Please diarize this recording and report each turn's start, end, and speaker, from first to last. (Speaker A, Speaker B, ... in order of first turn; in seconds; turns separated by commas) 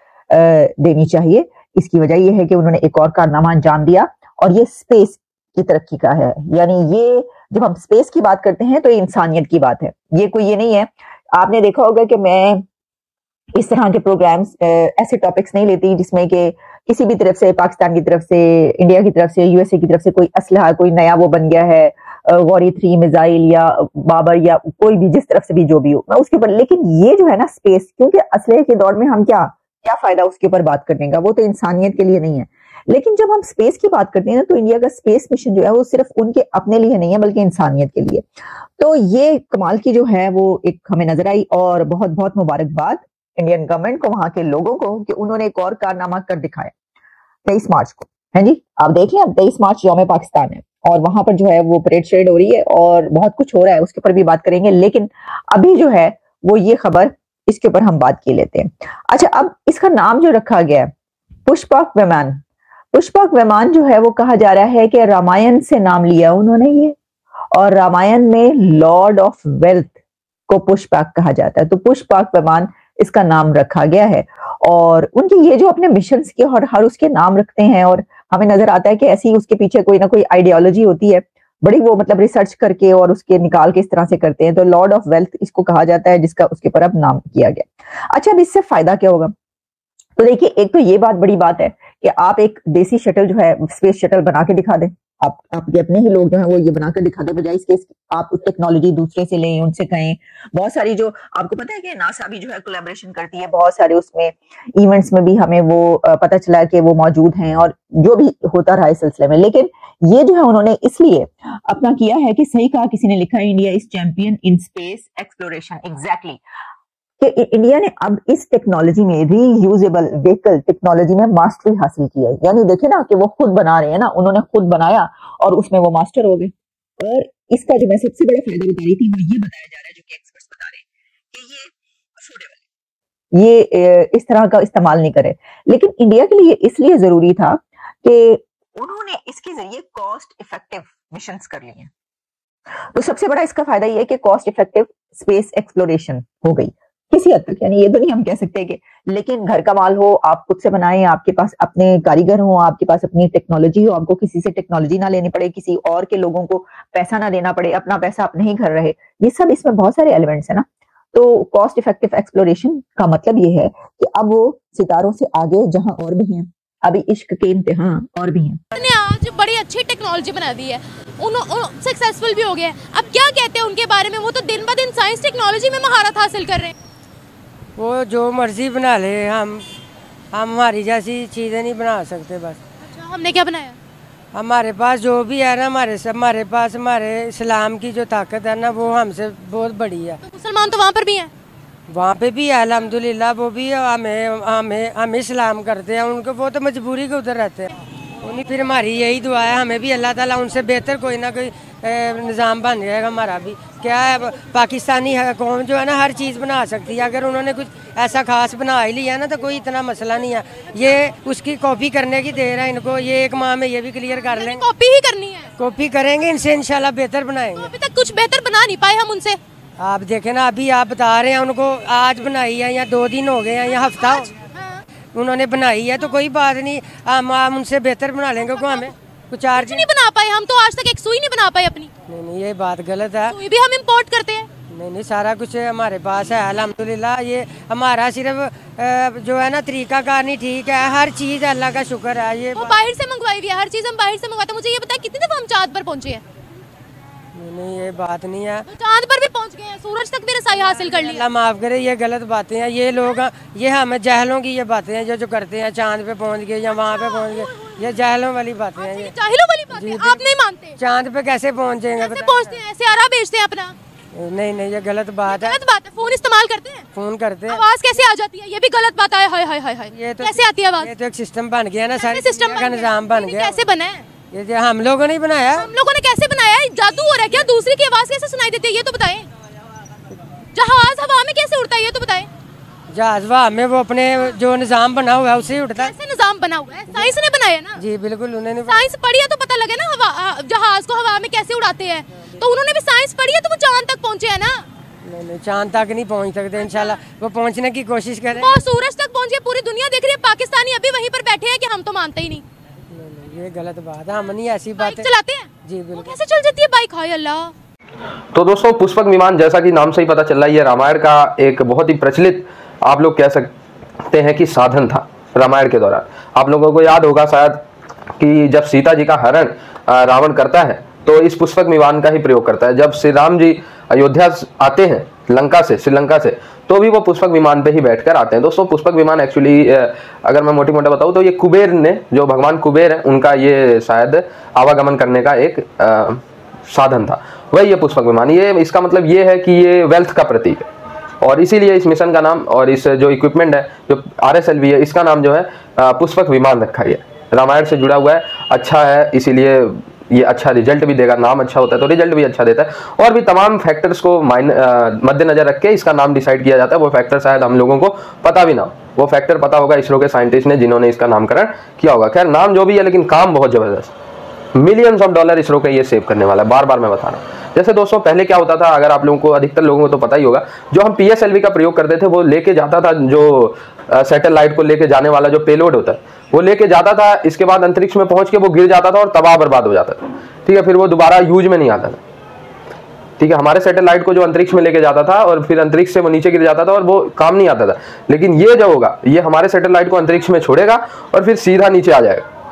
Speaker A: 0.3-12.6, Speaker A: 13.6-38.2, Speaker A: 38.8-46.7, Speaker A: 47.5-60.9, Speaker A: 61.5-62.4, Speaker A: 62.9-67.0, Speaker A: 67.5-70.0, Speaker A: 70.5-89.3, Speaker A: 90.2-116.4, Speaker A: 117.2-132.6, Speaker A: 133.4-141.9, Speaker A: 142.9-168.6, Speaker B: 168.7-176.7, Speaker C: 177.8-179.7, Speaker C: 180.3-182.6, Speaker B: 182.8-183.8, Speaker C: 184.3-190.2, Speaker B: 190.2-191.3, Speaker C: 191.9-214.6, Speaker B: 214.3-215.5, Speaker C: 215.6-217.7, Speaker B: 217.6-219.4, Speaker C: 219.8-224.3, Speaker B: 223.8-224.8, Speaker C: 225.1-229.8, Speaker B: 229.6-231.9, Speaker C: 232.1-233.3, Speaker B: 233.3-234.5, Speaker C: 234.7-242.7, Speaker B: 242.6-246.2, Speaker C: 247.3-248.7, Speaker B: 248.7-251.2, Speaker C: 250.8-259.1, Speaker B: 256.8-257.5, Speaker B: 258.8-260.8, Speaker C: 259.7-262.6, Speaker B: 262.0-263.8, Speaker C: 264.1-265.6, Speaker B: 265.3-266.9, Speaker C: 266.9-267.6, Speaker B: 267.5-270.9, Speaker C: 269.9-273.6, Speaker B: 272.0-274.1, Speaker C: 274.3-275.7, Speaker B: 275.6-279.3, Speaker B: 280.6-282.3, Speaker C: 282.9-285.9, Speaker B: 285.8-287.8, Speaker C: 287.8-288.9, Speaker B: 288.7-294.7, Speaker C: 295.1-298.6, Speaker B: 298.3-302.4, Speaker C: 302.9-305.1, Speaker B: 304.8-307.5, Speaker C: 305.6-306.1, Speaker D: 308.3-313.5, Speaker D: 314.1-317.6, Speaker D: 318.2-340.7, Speaker D: 341.2-363.9, Speaker D: 364.6-382.0, Speaker D: 383.2-392.3